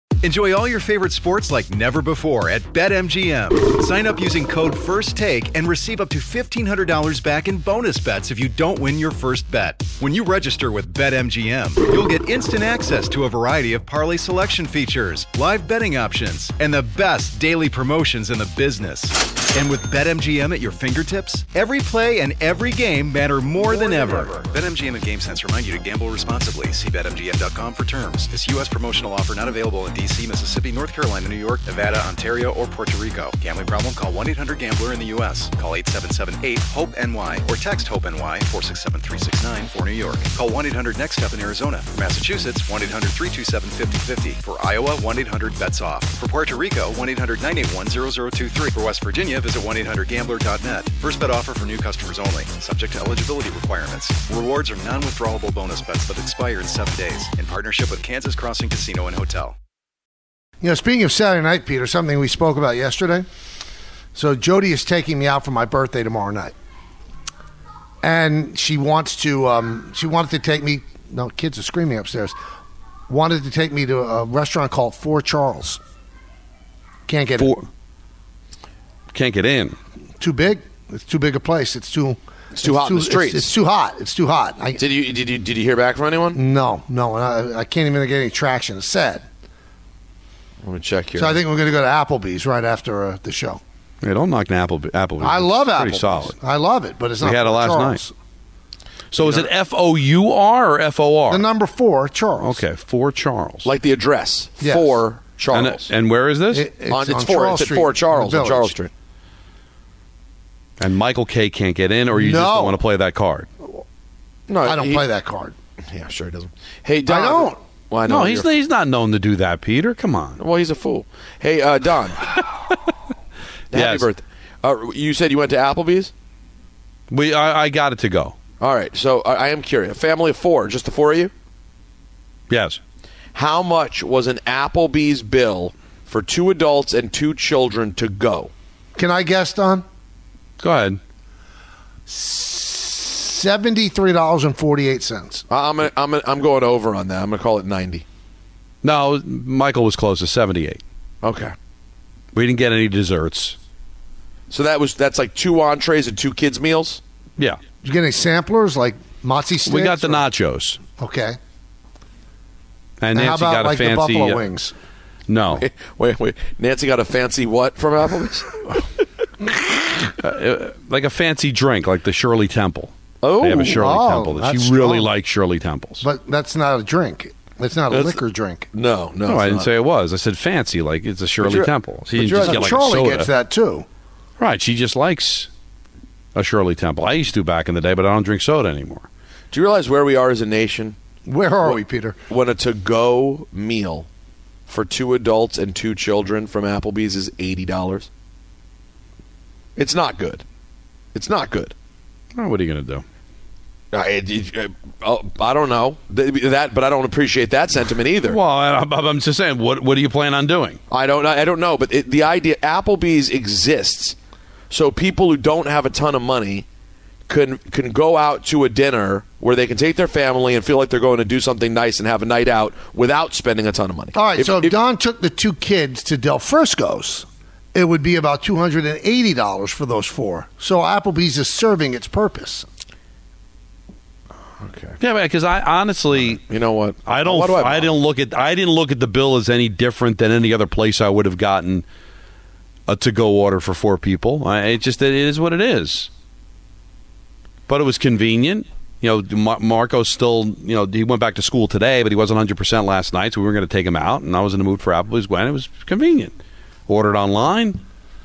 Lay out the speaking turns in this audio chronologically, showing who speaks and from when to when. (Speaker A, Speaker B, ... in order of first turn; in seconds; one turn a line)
Speaker A: 0.2-59.5
Speaker B: 60.6-63.2
Speaker B: 64.1-66.5
Speaker B: 68.0-72.4
Speaker B: 73.1-75.8
Speaker B: 77.1-77.6
Speaker C: 77.4-77.6
Speaker C: 79.1-79.8
Speaker B: 80.2-84.8
Speaker D: 82.5-83.5
Speaker D: 84.8-86.4
Speaker B: 86.3-89.2
Speaker D: 90.6-91.4
Speaker B: 91.2-93.6
Speaker C: 94.0-96.3
Speaker B: 95.2-98.1
Speaker C: 97.2-98.0
Speaker C: 99.1-101.5
Speaker D: 99.2-99.5
Speaker B: 101.3-102.6
Speaker C: 102.4-103.7
Speaker D: 103.6-105.9
Speaker B: 104.6-105.0
Speaker C: 105.5-106.7
Speaker B: 106.5-108.7
Speaker D: 106.9-108.9
Speaker C: 110.8-113.5
Speaker B: 112.1-112.8
Speaker D: 114.5-115.0
Speaker B: 114.6-115.5
Speaker D: 115.9-118.5
Speaker B: 117.0-117.6
Speaker C: 118.0-120.4
Speaker D: 120.4-122.2
Speaker D: 123.7-126.1
Speaker C: 123.7-124.1
Speaker C: 127.1-128.3
Speaker D: 128.6-131.3
Speaker C: 132.5-132.8
Speaker D: 133.3-138.5
Speaker B: 138.9-139.8
Speaker C: 140.6-141.0
Speaker B: 142.1-145.4
Speaker D: 145.5-148.0
Speaker C: 148.8-150.8
Speaker D: 151.2-151.5
Speaker C: 152.3-153.6
Speaker D: 154.5-157.0
Speaker B: 157.8-160.2
Speaker C: 159.6-160.8
Speaker B: 161.0-161.4
Speaker C: 163.0-164.5
Speaker B: 163.1-164.7
Speaker C: 165.3-165.6
Speaker D: 165.6-168.5
Speaker C: 170.2-176.0
Speaker D: 173.2-173.9
Speaker B: 173.8-175.1
Speaker B: 176.0-178.7
Speaker D: 177.9-178.2
Speaker D: 178.7-179.7
Speaker C: 179.3-183.3
Speaker D: 181.4-182.7
Speaker B: 182.4-183.8
Speaker C: 184.4-185.5
Speaker C: 186.3-189.1
Speaker D: 189.5-190.9
Speaker B: 191.2-192.1
Speaker D: 191.6-194.1
Speaker D: 194.7-198.1
Speaker D: 199.8-200.4
Speaker D: 201.1-201.7
Speaker C: 202.3-203.0
Speaker D: 203.9-208.4
Speaker C: 208.3-210.8
Speaker D: 210.9-214.1
Speaker D: 214.7-216.6
Speaker D: 217.3-224.7
Speaker B: 224.1-232.7
Speaker D: 234.6-235.0
Speaker C: 235.0-236.4
Speaker D: 236.1-237.9
Speaker C: 237.0-241.8
Speaker C: 242.9-246.1
Speaker C: 247.7-256.4
Speaker C: 256.9-257.8